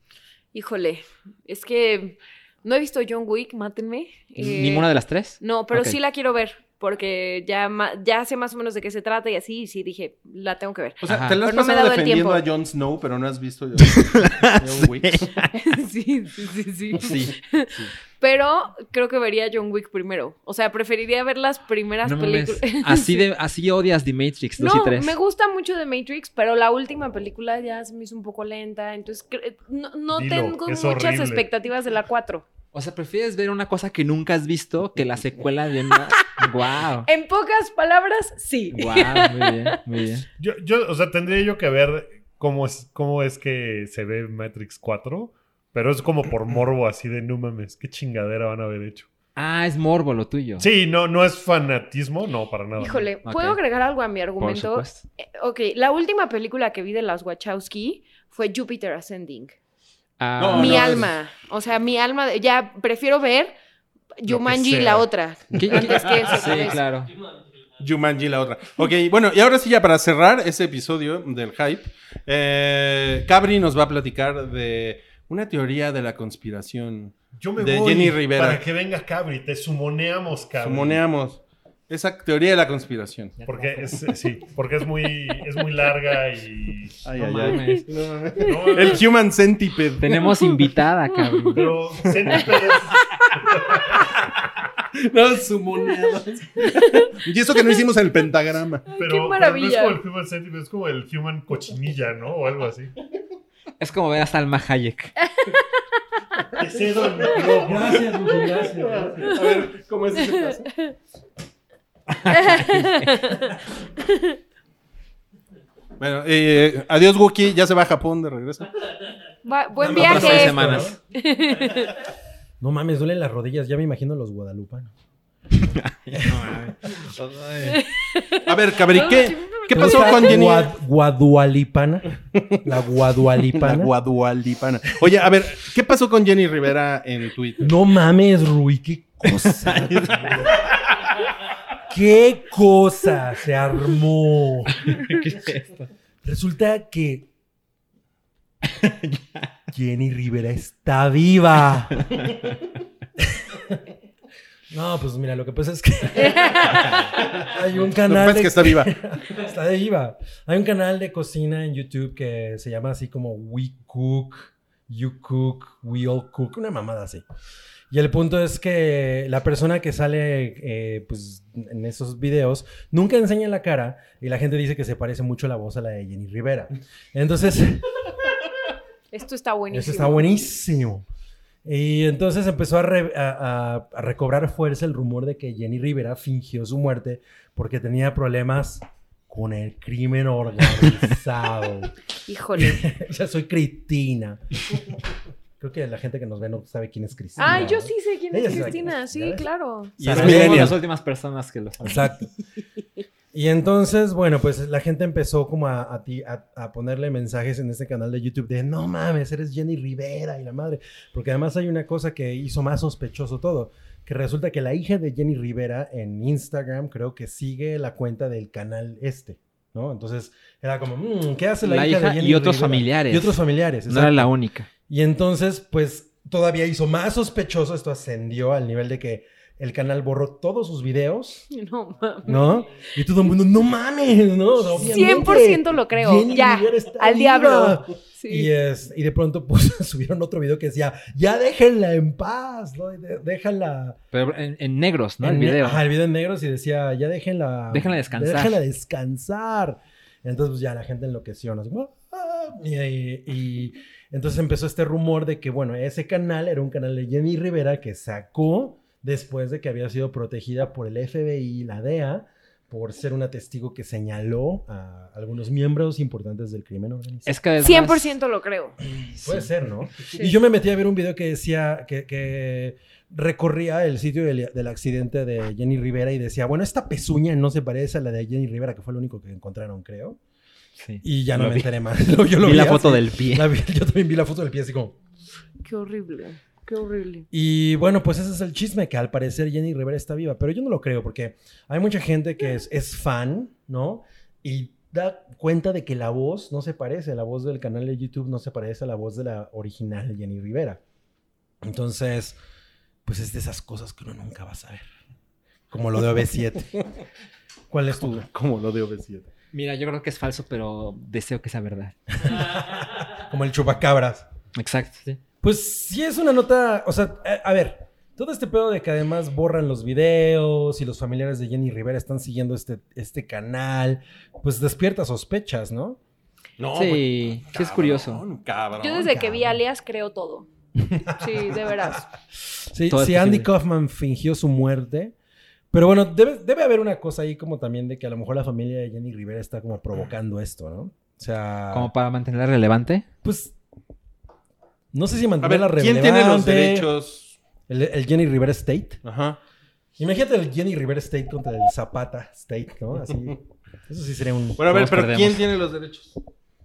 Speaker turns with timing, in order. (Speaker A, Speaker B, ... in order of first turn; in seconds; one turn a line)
Speaker A: 0.5-4.9
Speaker B: 4.4-6.0
Speaker A: 5.4-12.4
Speaker C: 11.0-15.3
Speaker B: 11.0-11.4
Speaker B: 14.0-15.6
Speaker A: 15.6-23.3
Speaker B: 17.0-17.4
Speaker B: 22.0-25.1
Speaker A: 24.6-32.5
Speaker D: 30.1-31.5
Speaker B: 32.7-37.1
Speaker A: 37.1-39.8
Speaker B: 38.7-40.3
Speaker D: 40.4-49.1
Speaker B: 49.4-50.7
Speaker D: 50.6-53.1
Speaker A: 52.8-59.5
Speaker B: 53.2-53.6
Speaker B: 54.4-55.0
Speaker B: 60.2-61.1
Speaker C: 60.4-61.1
Speaker A: 60.5-63.5
Speaker A: 64.2-66.8
Speaker D: 64.3-65.1
Speaker B: 65.5-67.1
Speaker C: 67.8-78.6
Speaker D: 77.4-81.0
Speaker C: 80.6-83.4
Speaker B: 83.4-84.1
Speaker D: 83.5-87.0
Speaker C: 87.0-90.4
Speaker B: 87.2-87.9
Speaker A: 87.5-87.8
Speaker D: 88.4-89.0
Speaker A: 88.4-89.0
Speaker B: 90.0-91.8
Speaker A: 91.1-91.6
Speaker D: 91.5-94.1
Speaker C: 92.0-98.9
Speaker A: 96.6-97.8
Speaker A: 98.9-100.0
Speaker D: 99.0-102.9
Speaker B: 103.8-105.2
Speaker A: 105.2-105.8
Speaker D: 106.6-108.0
Speaker E: 107.4-109.4
Speaker C: 108.8-110.7
Speaker A: 110.2-110.9
Speaker B: 112.2-113.1
Speaker A: 112.3-114.4
Speaker C: 116.0-118.7
Speaker A: 119.4-122.0
Speaker B: 119.8-121.0
Speaker C: 119.9-120.3
Speaker E: 119.9-121.0
Speaker E: 122.6-124.9
Speaker B: 125.5-127.8
Speaker E: 126.2-126.5
Speaker A: 127.7-130.6
Speaker C: 128.5-130.7
Speaker E: 129.7-132.1
Speaker C: 132.2-132.7
Speaker E: 132.6-133.9
Speaker C: 133.4-137.7
Speaker E: 137.6-140.1
Speaker B: 139.3-140.4
Speaker E: 141.9-144.9
Speaker B: 144.8-145.8
Speaker E: 146.2-147.3
Speaker E: 149.7-152.5
Speaker E: 153.2-153.8
Speaker E: 154.7-167.2
Speaker A: 156.2-157.0
Speaker C: 157.8-159.0
Speaker E: 167.9-178.0
Speaker A: 179.1-180.5
Speaker E: 179.7-181.1
Speaker E: 181.6-191.9
Speaker A: 192.3-192.8
Speaker E: 192.5-194.8
Speaker E: 195.6-199.5
Speaker A: 197.4-200.0
Speaker C: 200.0-200.8
Speaker E: 200.0-200.8
Speaker B: 200.0-202.1
Speaker E: 201.8-202.3
Speaker E: 203.3-224.3
Speaker B: 221.6-224.7
Speaker E: 224.9-231.5
Speaker A: 231.5-232.6
Speaker E: 232.3-244.0
Speaker A: 234.8-238.5
Speaker B: 244.1-245.8
Speaker E: 245.2-267.3
Speaker B: 247.7-248.6
Speaker B: 267.3-268.1
Speaker A: 267.6-268.8
Speaker E: 268.9-280.2
Speaker B: 268.9-270.3
Speaker B: 280.8-281.7
Speaker E: 281.0-284.9
Speaker B: 282.4-283.5
Speaker A: 285.6-287.3
Speaker E: 287.3-300.8
Speaker E: 301.6-302.4
Speaker E: 303.1-304.9
Speaker E: 305.7-306.9
Speaker E: 307.7-308.3
Speaker C: 308.0-309.3
Speaker B: 309.5-312.3
Speaker E: 312.3-314.3
Speaker B: 314.6-315.2
Speaker E: 315.4-326.0
Speaker C: 326.6-329.2
Speaker B: 326.8-328.2
Speaker A: 328.8-330.5
Speaker E: 329.1-329.5
Speaker E: 330.8-332.0
Speaker A: 331.2-332.1
Speaker E: 332.5-335.1
Speaker B: 332.9-333.5
Speaker E: 335.7-341.9
Speaker B: 341.7-343.1
Speaker E: 343.2-343.5
Speaker E: 344.9-346.9
Speaker C: 345.4-347.4
Speaker E: 347.7-349.0
Speaker C: 349.0-349.4
Speaker E: 350.0-354.7
Speaker C: 354.6-356.2
Speaker B: 354.6-355.6